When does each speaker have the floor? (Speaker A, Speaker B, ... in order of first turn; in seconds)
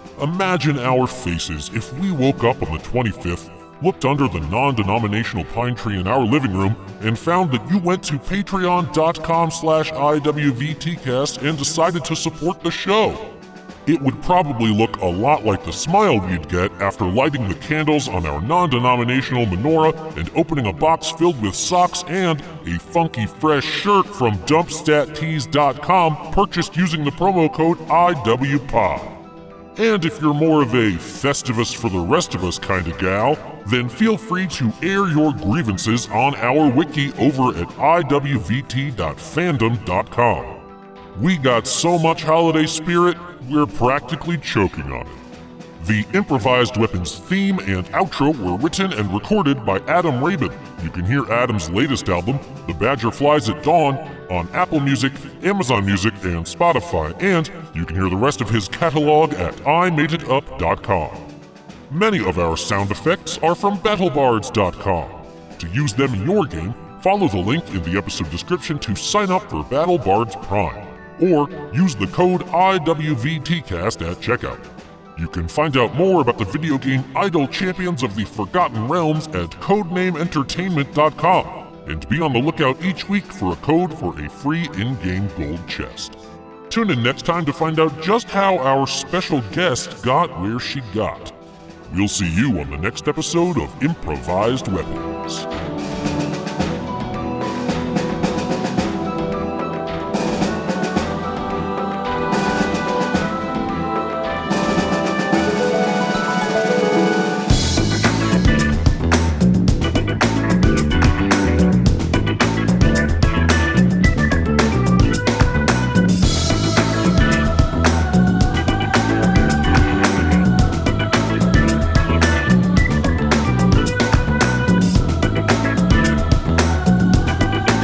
Speaker A: 0.2-29.2, 29.8-45.2, 45.8-61.3, 61.9-86.2, 86.7-91.3, 91.9-95.5